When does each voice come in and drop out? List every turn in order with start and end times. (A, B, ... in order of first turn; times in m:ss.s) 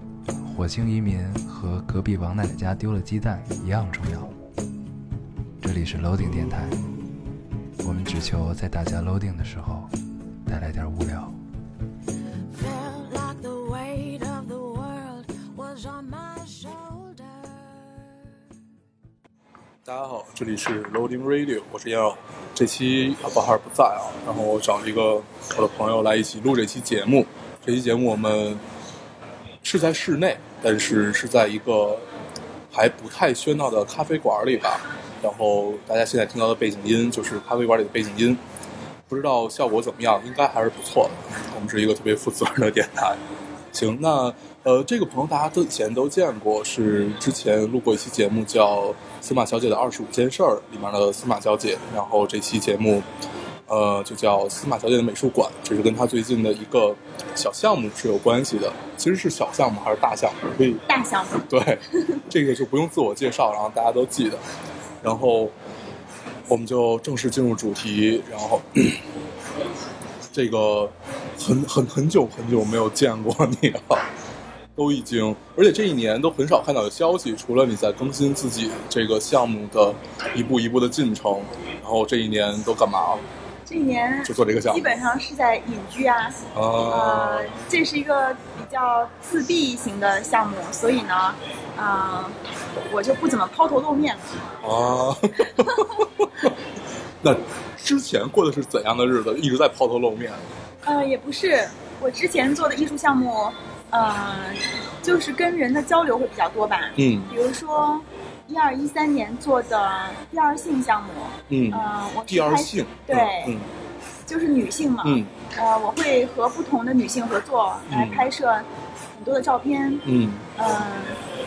0:00.3-0:04.3 A
0:05.6-0:06.8 A
0:07.8-0:09.9 A
0:10.4-0:11.4 A
0:12.5-0:18.0 B
0:19.8-0:28.6 C
0:29.6-0:32.1 C
0:32.7-0:38.4 C
0:39.1-0:43.2 C
0:43.7-0:53.0 C
0:53.7-1:00.8 C
1:00.9-1:01.5 D
1:01.5-1:04.4 C
1:05.0-1:05.5 C
1:06.5-1:09.0 C
1:10.3-1:14.1 C
1:14.8-1:23.2 C
1:23.7-1:32.4 D
1:24.2-1:24.9 C
1:26.5-1:27.6 C
1:32.9-1:34.4 D
1:34.6-1:36.5 C
1:35.4-1:36.1 D
1:37.2-1:40.4 C
1:40.8-1:53.6 D
1:47.0-1:47.3 C
1:51.5-1:53.7 C
1:54.3-2:01.2 D
1:55.0-1:55.3 C
1:57.9-1:58.2 C
2:00.0-2:00.4 C